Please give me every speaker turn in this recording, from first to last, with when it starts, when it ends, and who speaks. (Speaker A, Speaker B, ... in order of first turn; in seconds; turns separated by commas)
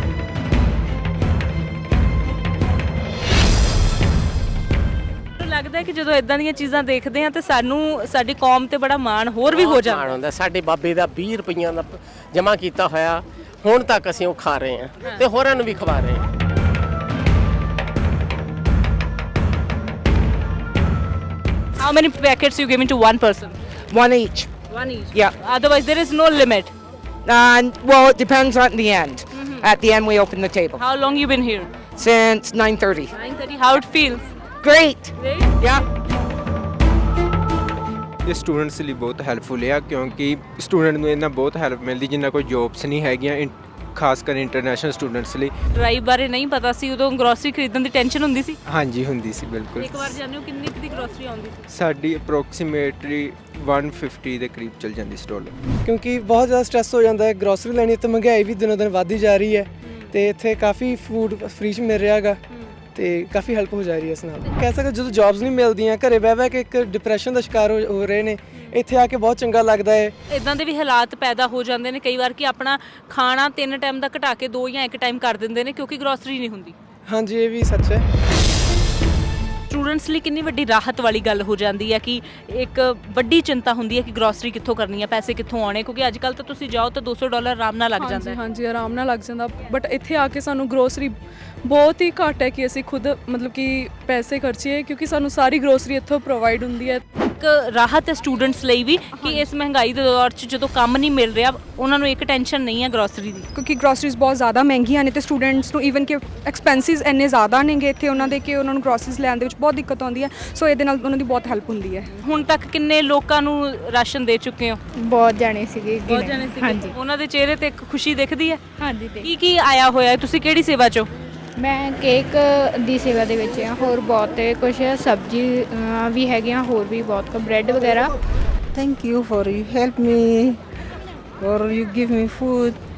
Speaker A: 5.4-10.2, Speaker B: 9.5-16.2, Speaker A: 21.8-23.6, Speaker C: 23.9-24.5, Speaker A: 24.7-26.7, Speaker C: 27.2-30.8, Speaker A: 29.3-29.7, Speaker A: 30.8-31.7, Speaker C: 32.0-33.1, Speaker A: 33.1-34.3, Speaker C: 34.6-35.8, Speaker A: 35.2-35.5, Speaker D: 38.2-45.5, Speaker A: 45.7-48.6, Speaker D: 48.7-50.2, Speaker A: 49.8-51.7, Speaker D: 51.7-55.6, Speaker E: 55.8-62.4, Speaker A: 59.8-60.1, Speaker E: 62.9-70.1, Speaker A: 70.3-76.7, Speaker E: 77.1-78.0, Speaker A: 79.7-88.4, Speaker F: 88.0-97.0, Speaker A: 97.3-103.5, Speaker G: 103.5-112.1, Speaker A: 112.2-114.8, Speaker H: 115.0-116.9, Speaker A: 116.1-118.6, Speaker H: 118.8-119.3, Speaker A: 119.2-121.1, Speaker H: 121.6-128.1, Speaker I: 128.7-130.6, Speaker I: 131.4-132.8